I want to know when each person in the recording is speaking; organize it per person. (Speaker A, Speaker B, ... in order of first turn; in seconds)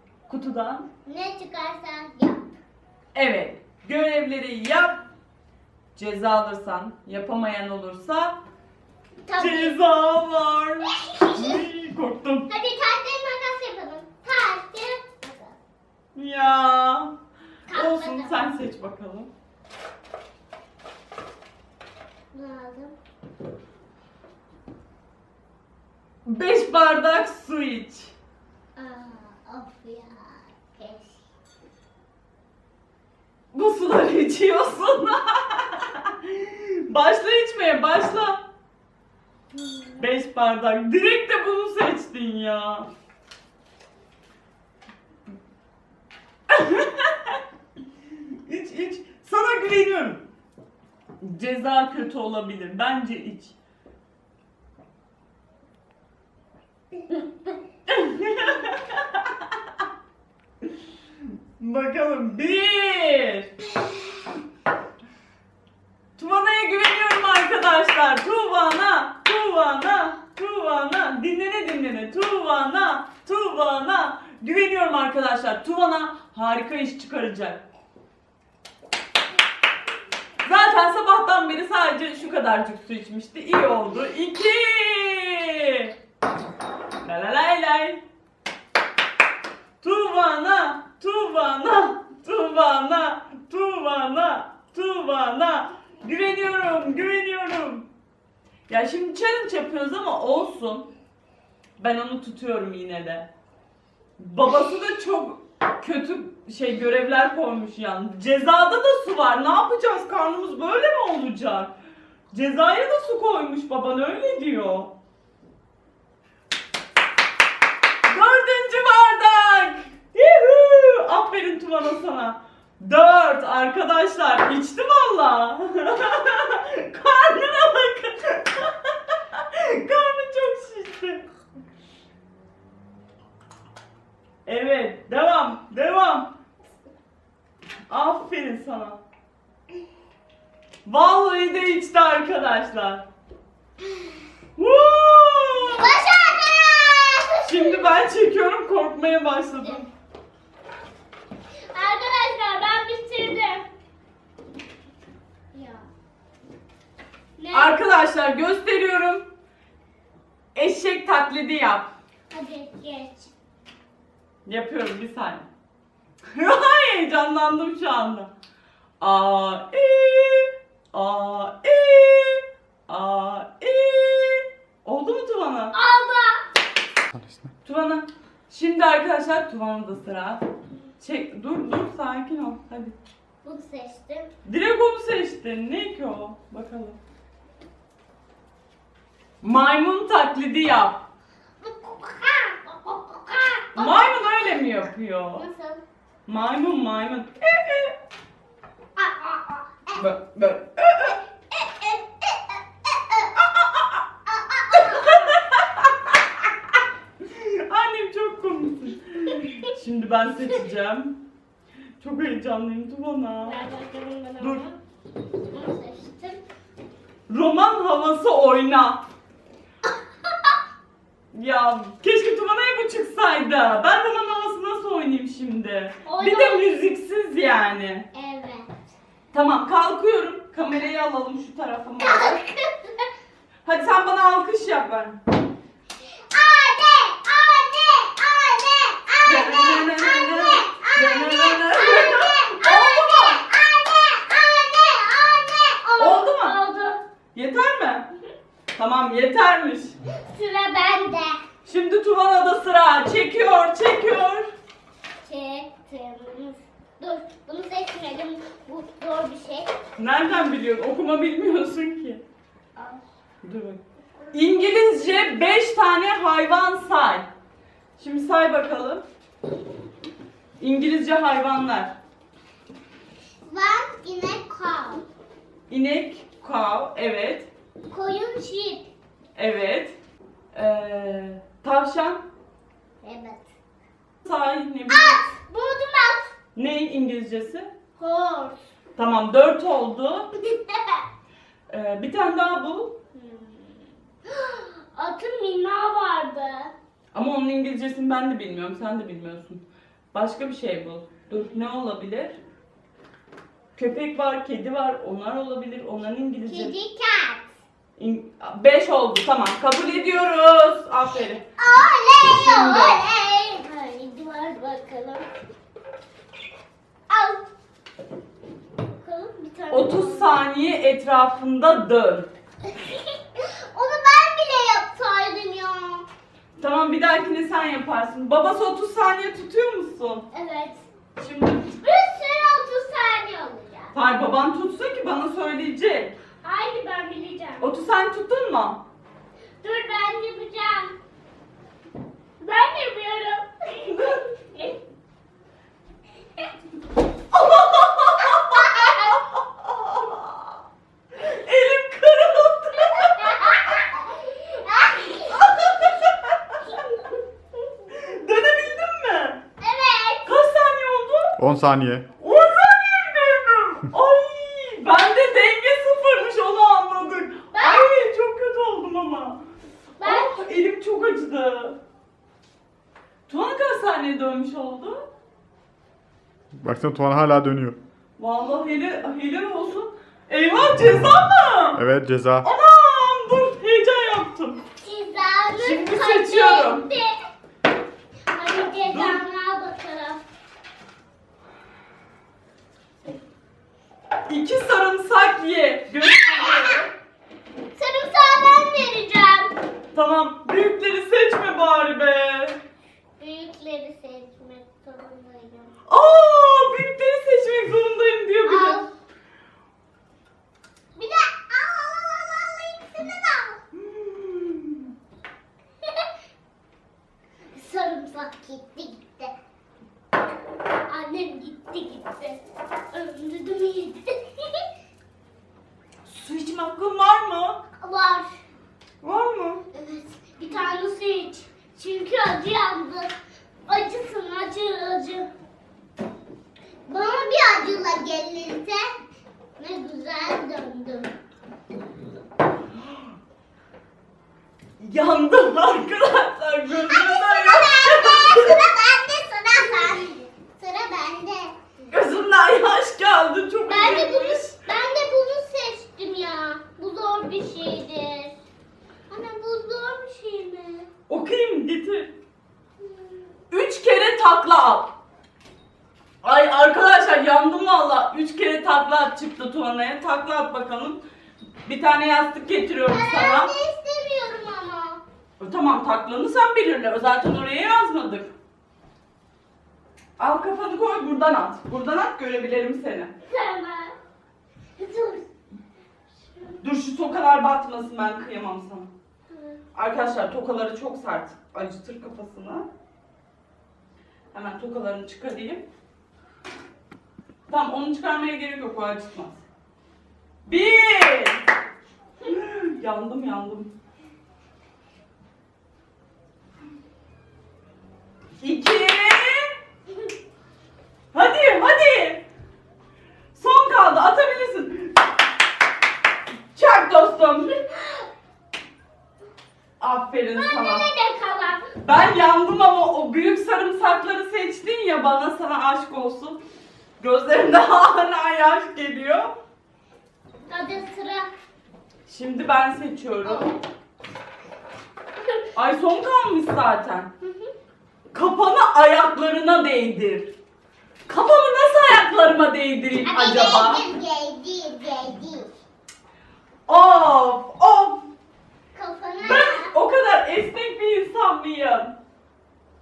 Speaker A: 0.3-0.9, 3.1-5.0, 5.9-8.4, 9.4-12.5, 16.1-17.1, 17.7-19.3, 26.2-28.1, 33.5-38.4, 40.0-42.9, 46.5-47.4, 48.1-50.2, 51.2-53.5, 57.9-59.3, 61.6-63.5, 66.2-77.6, 80.4-85.9, 87.0-88.0, 89.8-97.9, 98.7-100.9, 101.8-103.3, 104.2-111.7, 112.3-114.9, 118.1-131.2, 134.4-136.3, 137.9-139.0, 140.8-143.0, 144.6-145.8, 147.4-149.9, 157.5-159.2, 160.5-161.9, 164.4-165.5, 166.3-168.3, 169.0-175.8, 177.6-180.4, 181.0-182.9, 184.4-187.0, 189.4-191.0, 193.8-195.4, 196.2-197.9, 199.9-201.2, 204.7-206.2, 207.2-211.2, 212.0-213.7, 214.4-214.6, 217.3-219.0, 221.3-228.1, 229.3-232.4, 233.6-235.2, 239.2-243.4, 246.0-246.6, 247.3-248.1, 248.8-249.9, 251.6-254.5, 260.0-262.2, 263.4-263.8, 264.3-267.3, 268.0-269.0, 270.6-271.9, 275.7-277.5, 279.4-280.0, 280.5-282.2, 284.2-285.2, 286.6-287.7, 288.9-290.3, 291.7-293.0, 297.1-302.4, 303.8-306.7, 308.0-311.4, 312.2-313.0, 319.7-322.3, 326.6-330.2, 331.2-331.7, 333.9-336.1, 337.6-338.8, 347.3-350.4, 351.2-353.6, 355.3-356.6, 357.9-359.4, 360.2-361.4, 362.2-369.4, 370.0-371.8, 373.3-375.0, 378.2-381.8, 382.4-384.6, 385.6-386.8, 388.8-389.2, 394.3-396.9, 399.9-402.6, 405.9-408.8, 414.0-414.7, 426.1-427.6, 429.0-429.6, 444.8-448.6, 451.9-454.5, 461.1-462.1, 463.5-464.9, 466.2-471.0, 471.6-473.5, 475.4-478.3, 480.2-483.1, 486.6-488.9, 489.8-492.7, 494.3-495.6, 497.5-499.4, 500.4-501.4, 502.2-503.7, 508.4-509.5, 511.1-512.2, 513.3-515.0, 516.5-517.5, 519.8-520.9, 521.8-526.4, 527.0-529.3, 532.1-533.5, 535.5-537.1, 538.1-540.3, 541.1-543.8, 546.7-548.0, 549.2-551.9
Speaker B: 1.0-2.4, 9.2-9.8, 11.1-11.6, 12.5-15.6, 17.7-18.4, 22.3-22.9, 28.8-31.2, 39.5-40.0, 145.6-147.9, 151.7-153.7, 155.5-155.8, 157.4-157.8, 162.3-163.3, 175.7-176.4, 183.4-184.3, 191.6-194.2, 195.3-195.8, 199.0-200.0, 201.5-203.3, 204.4-205.3, 213.4-214.8, 215.4-216.4, 226.0-226.8, 228.1-228.7, 232.0-232.7, 236.3-247.0, 250.2-251.4, 255.2-259.7, 262.8-263.0, 273.4-275.1, 277.9-278.9, 283.0-283.5, 284.9-286.3, 288.0-288.6, 290.4-291.0, 293.1-296.7, 306.4-307.5, 311.6-315.2, 317.1-317.4, 318.8-320.4, 322.7-326.1, 330.3-330.9, 331.6-333.9, 336.4-337.8, 339.6-340.9, 342.4-344.8, 348.6-349.2, 353.2-355.4, 359.6-360.3, 367.5-367.9, 370.0-370.4, 384.8-387.1, 388.3-390.2, 397.7-399.5, 403.2-405.7, 408.4-408.9, 410.9-413.6, 417.5-419.3, 420.9-424.6, 427.8-428.4, 429.7-433.1, 433.7-435.3, 436.9-438.9, 439.6-441.1, 446.8-451.5, 453.7-458.3, 459.1-460.9, 462.8-463.2, 472.9-475.0, 483.2-483.9, 484.8-485.2, 489.3-489.6, 520.4-521.7, 530.5-531.3, 533.2-533.5, 537.2-537.5, 543.0-545.5, 548.7-549.7
Speaker C: 177.1-177.4, 361.4-362.1, 376.5-377.8, 381.8-382.4